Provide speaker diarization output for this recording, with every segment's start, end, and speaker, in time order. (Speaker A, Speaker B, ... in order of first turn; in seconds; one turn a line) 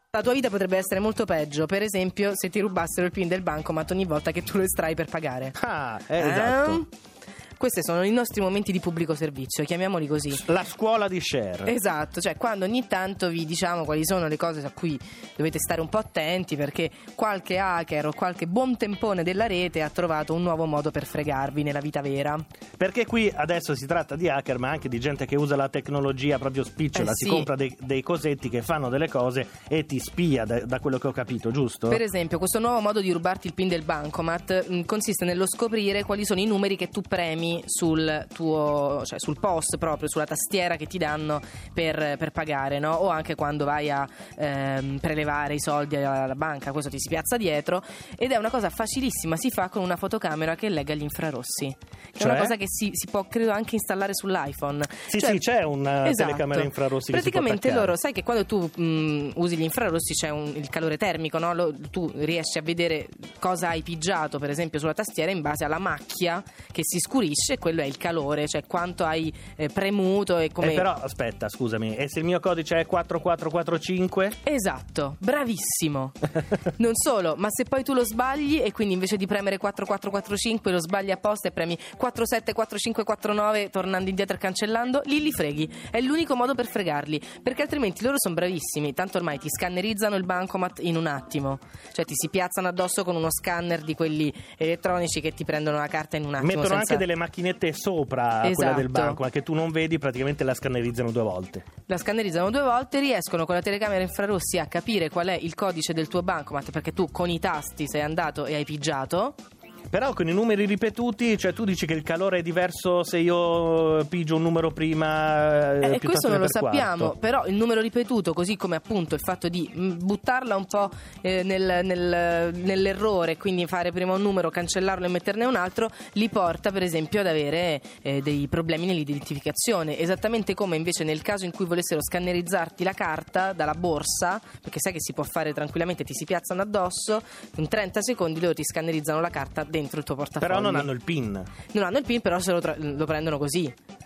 Speaker A: 0.1-5.5
Speaker B: 5.5-6.8
Speaker A: 6.2-6.9
Speaker A: 7.6-10.4
Speaker B: 10.3-11.7
Speaker A: 11.7-22.4
Speaker B: 22.8-32.0
Speaker A: 26.9-27.5
Speaker A: 31.9-55.4
Speaker B: 52.2-52.5
Speaker B: 55.1-57.9
Speaker A: 56.0-70.9
Speaker B: 70.6-74.4
Speaker A: 74.4-97.0
Speaker B: 96.4-101.6
Speaker A: 98.4-99.2
Speaker A: 101.9-109.4
Speaker B: 109.9-117.1
Speaker A: 115.8-140.9
Speaker B: 140.4-141.5
Speaker A: 141.7-143.7